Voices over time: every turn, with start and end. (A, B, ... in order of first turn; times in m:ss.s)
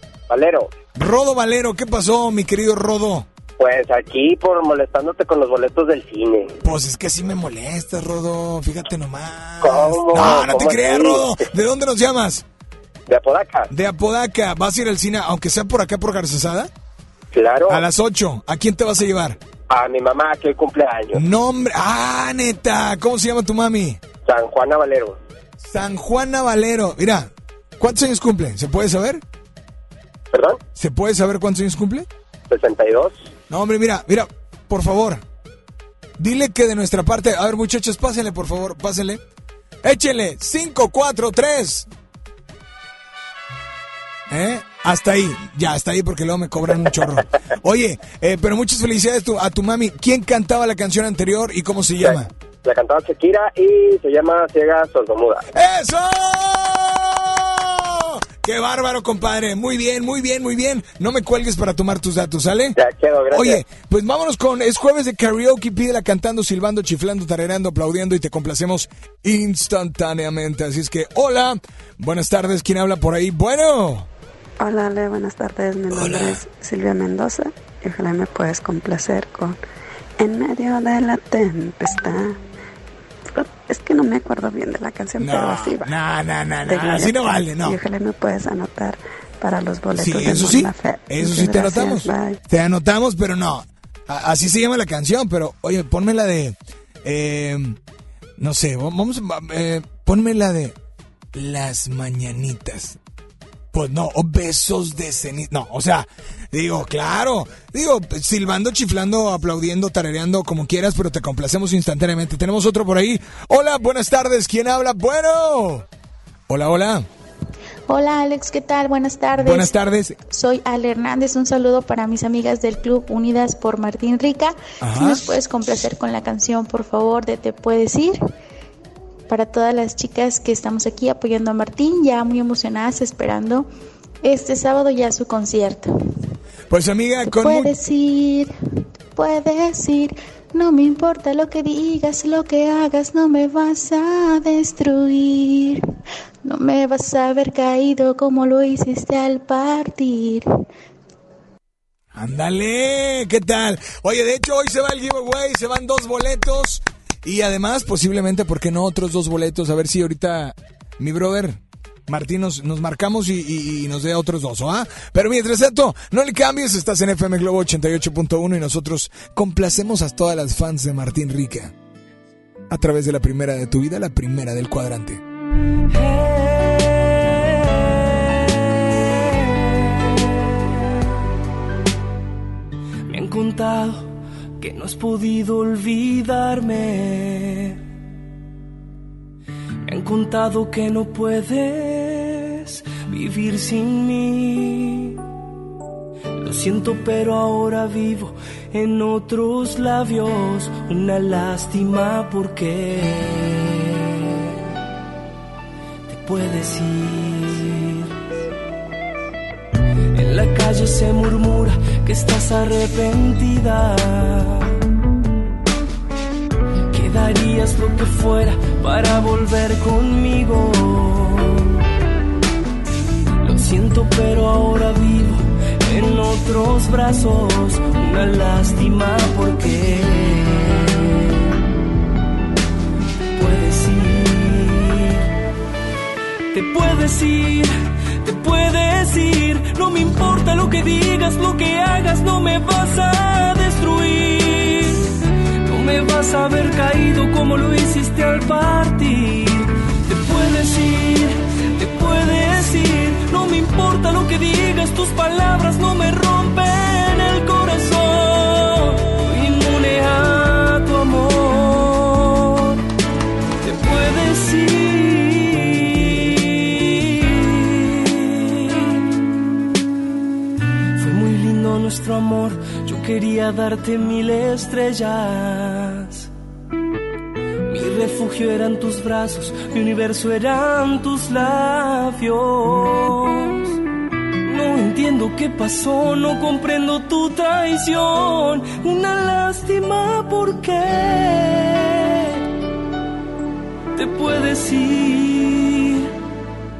0:00.3-0:00.7 A
0:00.9-0:03.2 B
0:03.6-0:06.6 A
0:06.6-0:12.4 B
0:09.6-0:11.3 A
0:13.1-0:13.7 A
0:13.7-0:16.7 B
0:17.3-0:17.8 A
0:17.7-0:19.4 B
0:19.7-0:21.2 A
0:21.1-0:24.0 B
0:24.2-0:25.2 A
0:25.6-0:29.2 B
0:30.3-0:30.6 A
0:30.7-0:32.1 B
0:32.5-0:33.3 A
0:33.5-0:35.2 B
0:36.2-0:39.2 B
0:39.8-0:41.9 B
0:44.3-0:52.3 B
0:52.0-0:55.4 A
0:55.5-1:02.8 B
1:02.8-1:03.6 A
1:03.3-1:14.1 B
1:14.6-1:19.6 C
1:15.9-1:16.4 B
1:20.2-1:22.4 C
1:23.3-1:25.9 C
1:25.2-1:27.8 B
1:26.7-1:32.4 C
1:29.9-1:37.8 B
1:38.4-1:40.8 B
1:41.3-1:43.0 B
1:43.7-1:55.8 B
1:56.5-1:57.1 B
1:57.9-1:59.7 D
1:59.4-2:00.2 B
2:00.3-2:08.2 D
2:04.8-2:05.2 B
2:09.3-2:13.7 D
2:14.2-2:15.9 D
2:16.7-2:17.7 B
2:17.2-2:18.5 D
2:19.1-2:25.8 D
2:26.4-2:30.5 D
2:32.1-2:51.7 B
2:52.7-2:55.2 B
2:55.9-2:57.8 E
3:03.1-3:07.8 E
3:09.8-3:15.2 E
3:16.4-3:24.4 E
3:26.1-3:28.2 E
3:30.1-3:34.7 E
3:36.9-3:41.7 E
3:43.4-3:51.3 E
3:53.4-3:55.2 E
3:56.5-3:57.7 E
3:58.2-4:05.1 E
4:05.6-4:22.8 E
4:23.6-4:29.0 E
4:31.0-4:36.3 E
4:37.7-4:43.8 E
4:44.4-4:52.4 E
4:54.0-4:56.1 E